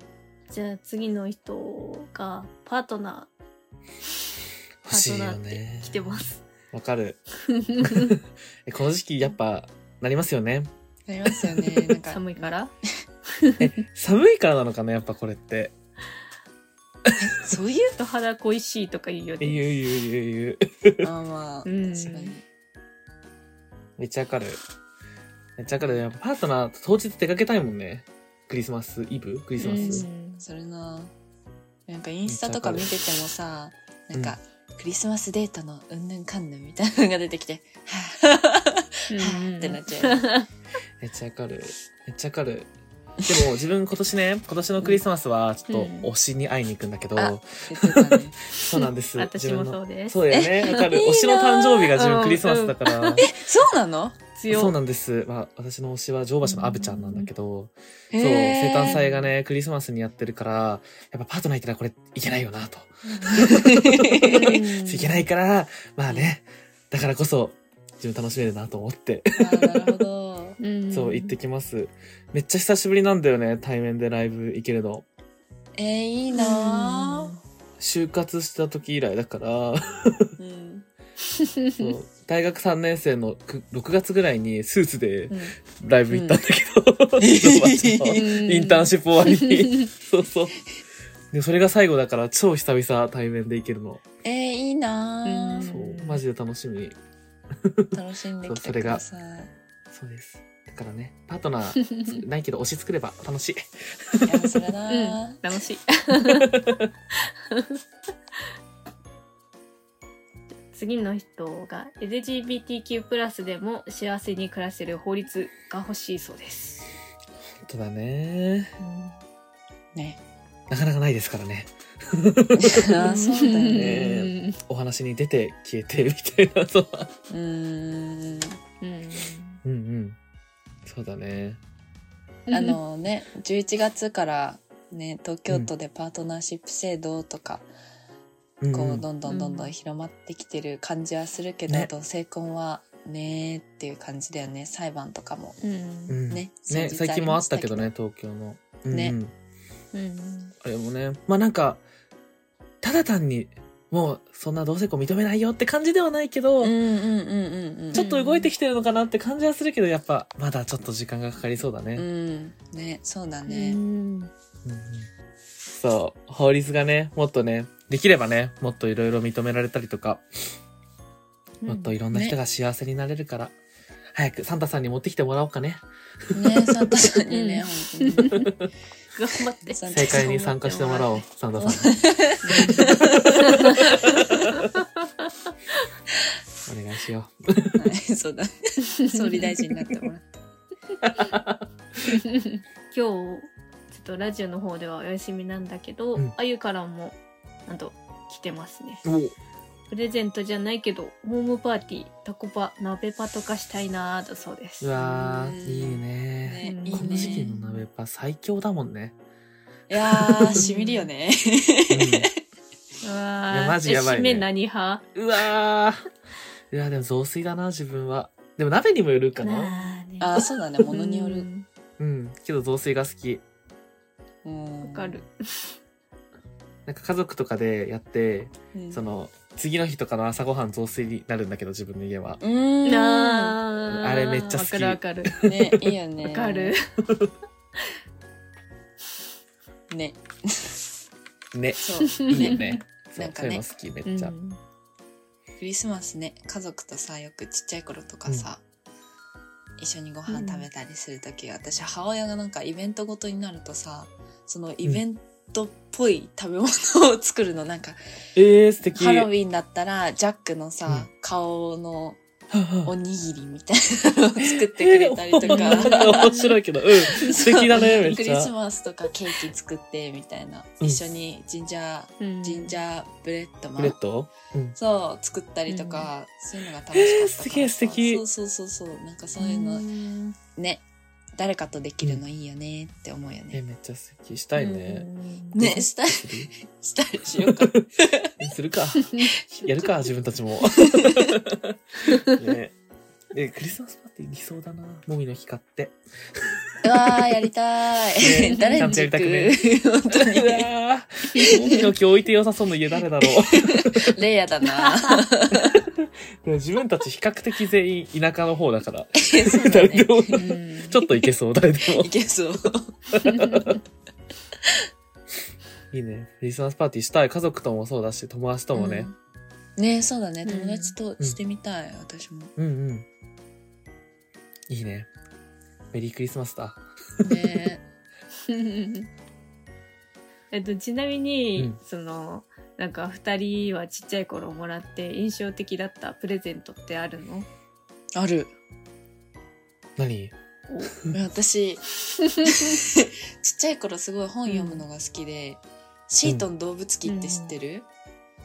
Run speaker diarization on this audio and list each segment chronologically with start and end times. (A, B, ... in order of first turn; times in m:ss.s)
0:00.5-0:03.3 A
0:04.8-0:07.2 B
0:04.9-0:06.4 A
0:07.5-0:08.1 A
0:07.8-0:08.1 B
0:08.7-0:10.7 B
0:11.1-0:12.6 C
0:11.3-0:12.0 B
0:12.1-0:12.7 A
0:13.6-0:15.8 B
0:17.2-0:18.0 C
0:18.0-0:19.8 A
0:19.4-0:21.1 B
0:21.0-0:22.4 C
0:21.6-0:22.3 A
0:24.0-0:24.6 B
0:25.6-0:30.1 B
0:29.6-0:30.4 A
0:29.6-0:31.1 C
0:31.9-0:40.3 C
0:32.3-0:32.9 B
0:39.1-0:40.4 A
0:41.0-0:42.7 B
0:43.3-0:53.3 B
0:45.7-0:46.1 A
0:47.2-0:48.6 C
0:49.2-0:50.8 A
0:50.3-0:52.0 C
0:51.9-0:53.2 A
0:53.2-0:54.2 C
0:54.4-0:54.8 A
0:54.5-1:10.0 B
0:56.4-0:57.3 A
0:58.1-0:59.1 C
0:58.8-0:59.2 A
1:03.1-1:03.4 A
1:03.4-1:04.6 C
1:04.2-1:05.3 A
1:09.4-1:10.6 C
1:10.6-1:11.4 A
1:10.9-1:15.1 B
1:15.8-1:17.3 C
1:16.4-1:17.4 A
1:17.8-1:20.3 B
1:20.4-1:20.9 C
1:21.4-1:21.9 A
1:21.8-1:30.6 B
1:25.3-1:25.6 C
1:26.1-1:26.4 C
1:27.2-1:28.4 C
1:28.2-1:29.9 A
1:31.3-1:34.0 B
1:34.2-1:35.7 C
1:35.2-1:36.2 A
1:35.6-1:37.0 B
1:37.6-1:39.0 B
1:37.9-1:39.5 C
1:39.9-1:44.6 B
1:44.2-1:45.4 C
1:44.9-1:46.5 A
1:46.5-1:46.8 B
1:47.5-1:47.8 A
1:50.7-1:56.9 A
1:57.6-1:58.8 B
1:58.8-1:59.2 A
2:00.0-2:00.2 C
2:00.7-2:03.0 B
2:02.6-2:04.2 C
2:03.0-2:04.6 A
2:03.7-2:07.1 B
2:07.3-2:08.6 C
2:08.8-2:09.6 A
2:09.6-2:10.2 B
2:10.8-2:11.6 B
2:12.5-2:12.8 A
2:12.5-2:17.7 C
2:18.6-2:19.1 B
2:18.7-2:25.6 C
2:19.3-2:19.7 A
2:25.6-2:26.2 A
2:26.1-2:29.3 B
2:26.3-2:27.9 C
2:28.9-2:29.2 C
2:29.9-2:30.5 A
2:30.6-2:31.8 B
2:32.8-2:36.8 B
2:36.6-2:38.1 C
2:37.9-2:42.1 B
2:38.0-2:38.5 A
2:42.0-2:43.8 C
2:43.5-2:44.3 A
2:44.6-2:45.1 B
2:45.8-2:50.2 B
2:51.6-2:52.0 A
2:51.6-2:53.6 B
2:52.1-2:52.4 C
2:54.2-2:56.9 B
2:56.4-2:58.5 C
2:57.3-2:58.5 A
2:59.2-3:01.1 A
2:59.7-3:01.0 C
2:59.9-3:02.0 B
3:01.6-3:04.2 C
3:02.4-3:05.5 A
3:02.5-3:04.0 B
3:06.7-3:07.8 B
3:07.8-3:10.4 C
3:09.1-3:09.6 A
3:11.0-3:11.6 B
3:12.1-3:19.0 A
3:19.0-3:19.4 B
3:19.9-3:24.9 A
3:24.8-3:29.2 B
3:25.0-3:27.6 C
3:26.6-3:27.8 A
3:29.9-3:32.3 C
3:30.0-3:30.6 B
3:30.6-3:31.1 A
3:31.9-3:32.3 B
3:33.0-3:35.0 A
3:33.5-3:34.5 B
3:35.2-3:36.0 B
3:36.7-3:39.8 B
3:39.4-3:41.7 A
3:40.2-3:41.5 C
3:42.0-3:43.4 B
3:44.4-3:45.2 C
3:44.8-3:45.7 A
3:46.9-3:52.4 B
3:48.7-3:49.0 C
3:52.4-3:53.6 C
3:52.8-3:55.4 A
3:53.9-3:55.9 B
3:55.4-3:56.8 C
3:56.2-3:56.9 A
3:59.9-4:00.8 C
4:01.5-4:04.4 B
4:01.8-4:03.6 C
4:02.2-4:02.8 A
4:04.0-4:04.6 A
4:05.6-4:08.6 C
4:09.8-4:18.0 C
4:10.3-4:10.7 A
4:18.4-4:19.3 B
4:19.0-4:22.2 C
4:22.5-4:22.9 B
4:22.8-4:26.4 C
4:24.5-4:28.5 B
4:25.4-4:26.5 A
4:27.2-4:34.0 C
4:27.8-4:28.0 A
4:32.2-4:32.8 A
4:33.8-4:34.8 B
4:34.8-4:40.8 C
4:35.7-4:36.1 A
4:36.9-4:38.2 B
4:39.4-4:40.3 A
4:41.4-4:43.6 C
4:43.5-4:45.1 B
4:44.6-4:44.8 C
4:44.6-4:45.6 A
4:45.5-4:48.3 C
4:45.6-4:46.5 B
4:47.4-4:47.8 B
4:48.4-4:52.8 B
4:49.2-4:50.0 C
4:53.3-4:57.2 B
4:56.8-5:00.7 C
4:58.2-4:59.6 B
4:58.4-4:59.0 A
5:00.1-5:04.2 B
5:01.4-5:01.8 C
5:03.4-5:05.8 C
5:04.7-5:05.1 A
5:05.5-5:12.1 B
5:09.2-5:11.2 C
5:10.3-5:11.0 A
5:12.0-5:12.9 C
5:13.1-5:13.8 B
5:13.2-5:13.8 A
5:15.9-5:19.1 B
5:18.8-5:19.2 C
5:19.8-5:22.5 C
5:20.4-5:21.0 A
5:22.6-5:23.1 B
5:24.7-5:25.1 B
5:25.9-5:27.5 B
5:27.2-5:27.8 C
5:28.5-5:29.1 A
5:30.5-5:37.5 A
5:38.2-5:38.5 C
5:40.0-5:40.3 B
5:40.7-5:41.0 A
5:41.1-5:47.9 C
5:42.5-5:42.8 A
5:44.5-5:44.8 A
5:47.0-5:47.5 A